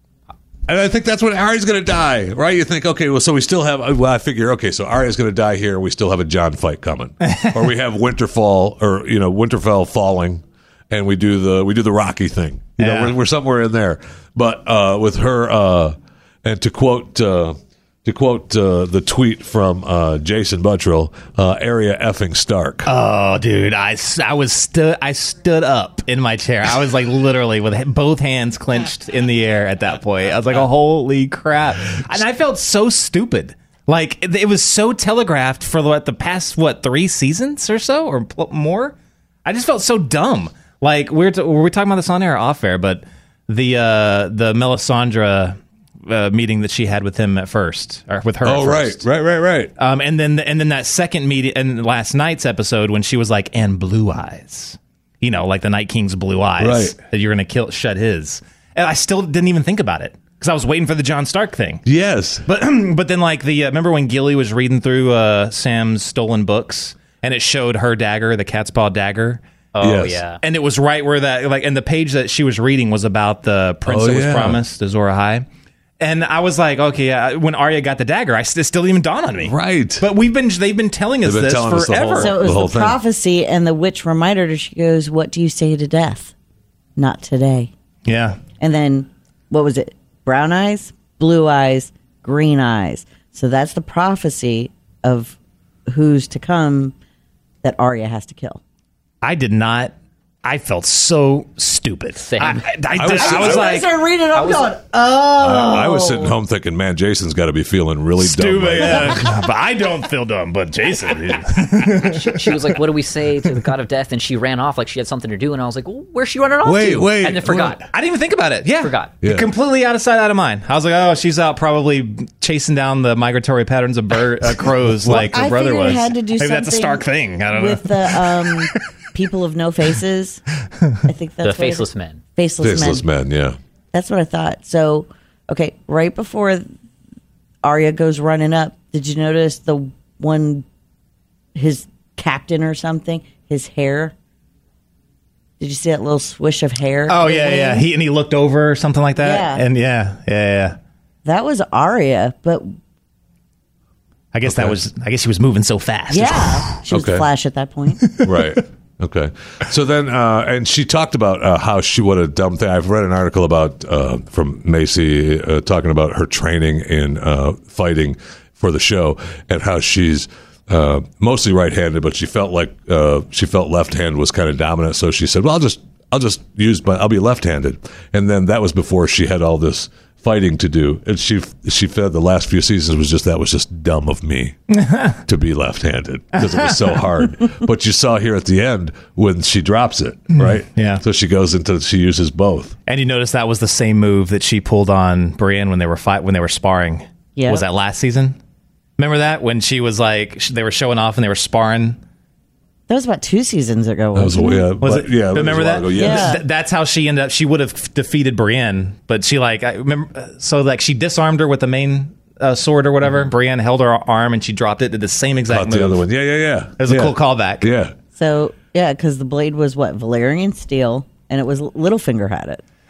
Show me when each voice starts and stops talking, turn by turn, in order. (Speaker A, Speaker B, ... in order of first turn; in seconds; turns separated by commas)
Speaker A: 0.7-22.9, Speaker B: 12.8-13.1, Speaker B: 22.9-49.0, Speaker A: 48.4-49.7, Speaker B: 49.8-61.8, Speaker A: 56.6-57.0, Speaker A: 61.9-62.5, Speaker B: 62.5-69.4, Speaker C: 69.7-70.4, Speaker A: 69.8-70.2, Speaker B: 70.4-75.5, Speaker A: 73.9-74.6, Speaker B: 76.0-82.4, Speaker A: 79.4-80.1, Speaker A: 81.2-83.0, Speaker D: 82.2-86.3, Speaker D: 87.0-87.7, Speaker B: 88.1-88.4, Speaker D: 88.6-95.4, Speaker D: 95.9-97.0, Speaker D: 97.6-98.6, Speaker B: 99.2-103.9, Speaker C: 102.3-102.7, Speaker A: 102.9-103.7, Speaker D: 103.1-106.3, Speaker C: 104.3-104.7, Speaker A: 105.4-109.3, Speaker B: 108.2-112.8, Speaker C: 112.0-117.9, Speaker A: 116.6-117.8, Speaker B: 117.9-128.8, Speaker C: 118.8-119.1, Speaker A: 119.2-119.5, Speaker D: 125.1-130.4, Speaker D: 131.0-133.1, Speaker C: 131.4-132.2, Speaker A: 132.6-133.6, Speaker D: 133.9-136.7, Speaker D: 137.6-140.7, Speaker D: 141.6-144.2, Speaker D: 145.6-147.9, Speaker B: 147.1-150.8, Speaker D: 149.2-149.6, Speaker D: 151.2-152.7, Speaker B: 154.3-156.8, Speaker A: 154.4-154.8, Speaker D: 156.1-158.0, Speaker A: 156.9-157.3, Speaker B: 158.0-158.3, Speaker A: 158.2-184.6, Speaker B: 184.7-185.2, Speaker A: 185.2-192.8, Speaker B: 186.4-187.0, Speaker B: 190.3-191.0, Speaker B: 192.9-198.4, Speaker D: 197.4-197.6, Speaker B: 199.0-202.0, Speaker D: 202.9-204.7, Speaker A: 204.2-206.4, Speaker B: 204.8-216.1, Speaker D: 205.9-206.4, Speaker A: 215.5-217.9, Speaker B: 216.8-217.7, Speaker D: 218.2-222.6